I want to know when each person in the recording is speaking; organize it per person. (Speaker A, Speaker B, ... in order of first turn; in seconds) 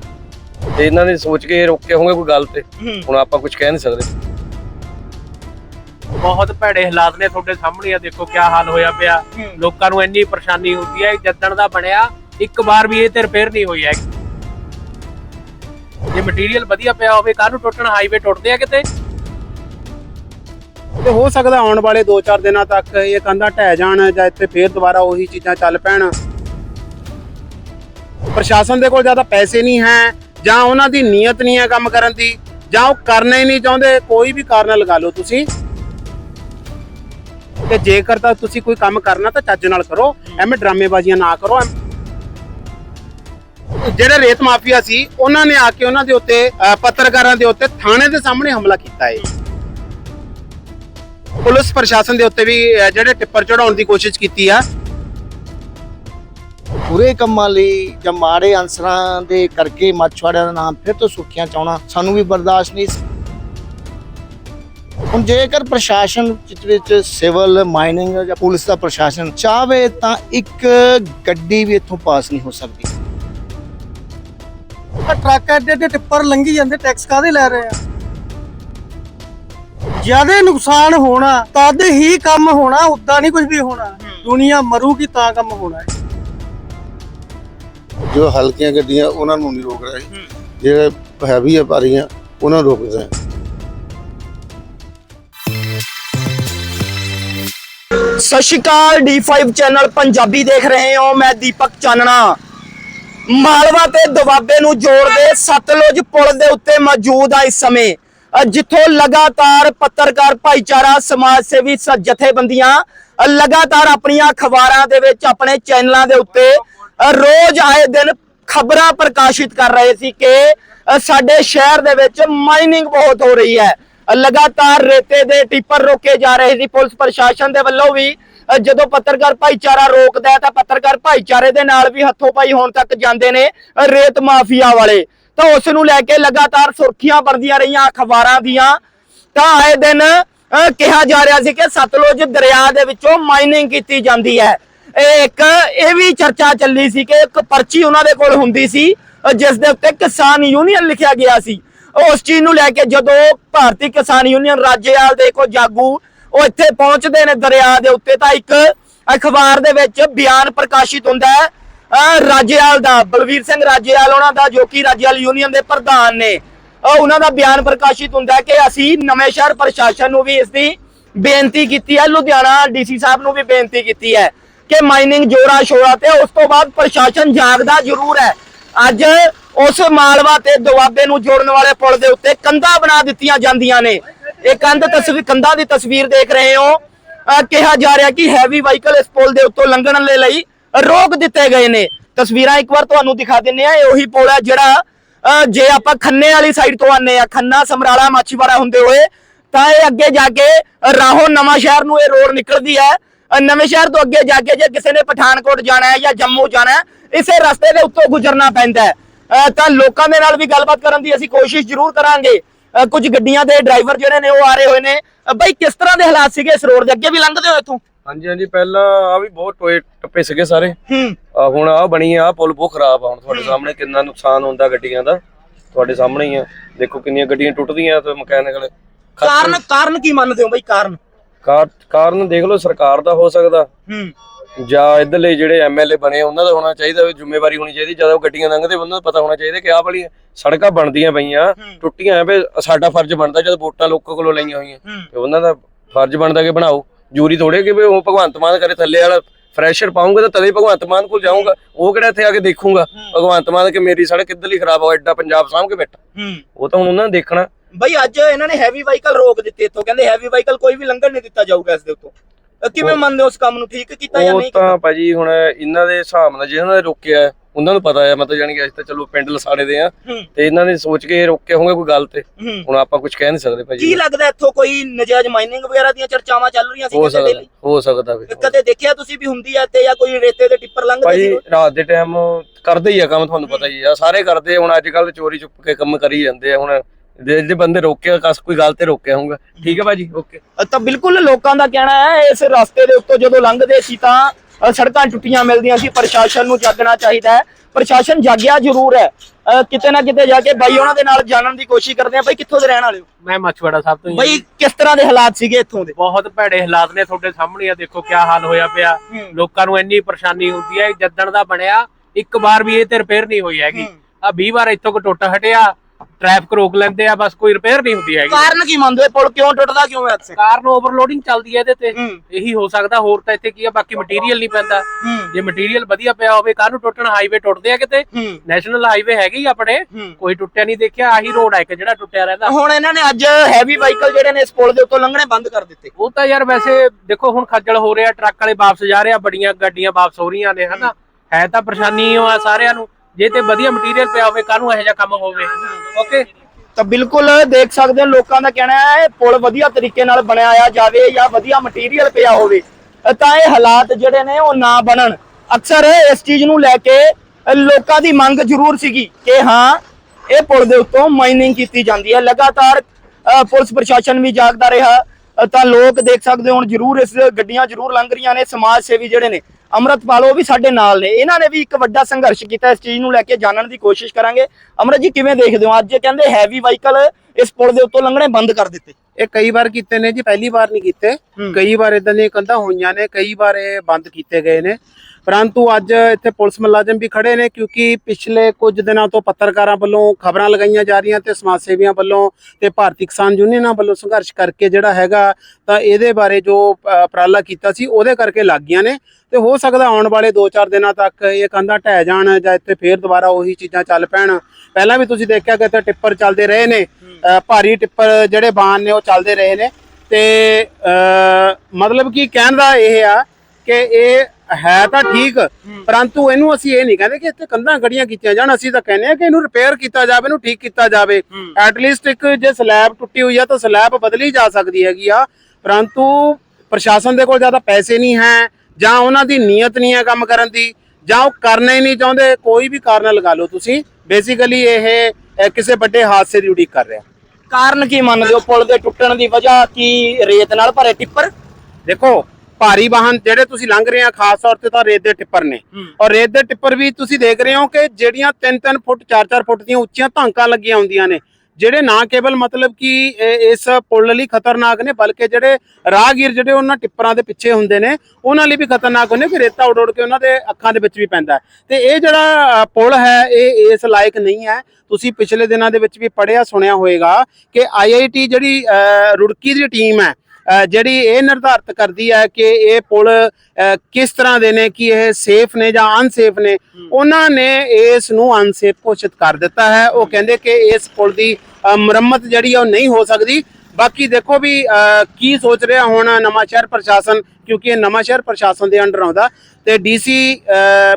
Speaker A: 0.8-4.1, 218.1-220.8, 221.3-225.2, 225.7-229.6, 231.4-233.7, 234.7-256.0, 256.6-257.5, 264.1-274.0, 276.9-278.4, 281.0-290.4
Speaker B: 2.8-3.0, 84.0-84.2, 98.2-102.4, 103.3-138.8, 139.3-217.8, 220.9-221.2, 229.2-231.0, 233.9-234.1, 256.1-256.4, 257.7-264.7, 272.4-272.7, 273.8-277.4, 278.3-281.4, 290.6-303.1, 304.1-305.9, 318.3-320.4, 321.9-322.2, 325.0-325.3, 328.1-328.4, 332.4-335.9, 346.8-359.8, 360.3-378.9, 437.5-441.3
Speaker C: 6.2-14.0, 16.1-18.8, 303.2-304.4, 306.0-318.5, 320.4-332.5, 336.0-346.2
Speaker D: 21.3-26.0, 28.4-32.2, 32.8-35.4, 37.8-41.6, 44.0-49.1, 51.5-54.5, 379.3-381.1, 381.8-384.6, 385.4-395.2, 395.8-396.6, 397.2-398.8, 399.4-404.2, 404.8-406.7, 407.5-409.6, 411.9-413.0, 413.8-414.1, 415.9-420.9, 421.8-425.1, 425.7-426.0, 426.8-428.2, 428.9-430.6, 431.2-434.9, 435.6-436.9, 442.9-445.4, 446.1-451.1, 451.7-452.9, 453.5-462.2, 462.8-468.6, 469.2-470.1, 470.8-476.5, 477.1-481.3, 481.8-483.4, 483.9-484.6, 485.2-490.4
Speaker E: 29.5-30.1, 75.1-77.8, 80.0-85.9, 414.8-415.1, 479.9-480.3
Speaker F: 56.9-63.0, 65.1-72.9
Speaker G: 88.1-90.1, 90.6-93.1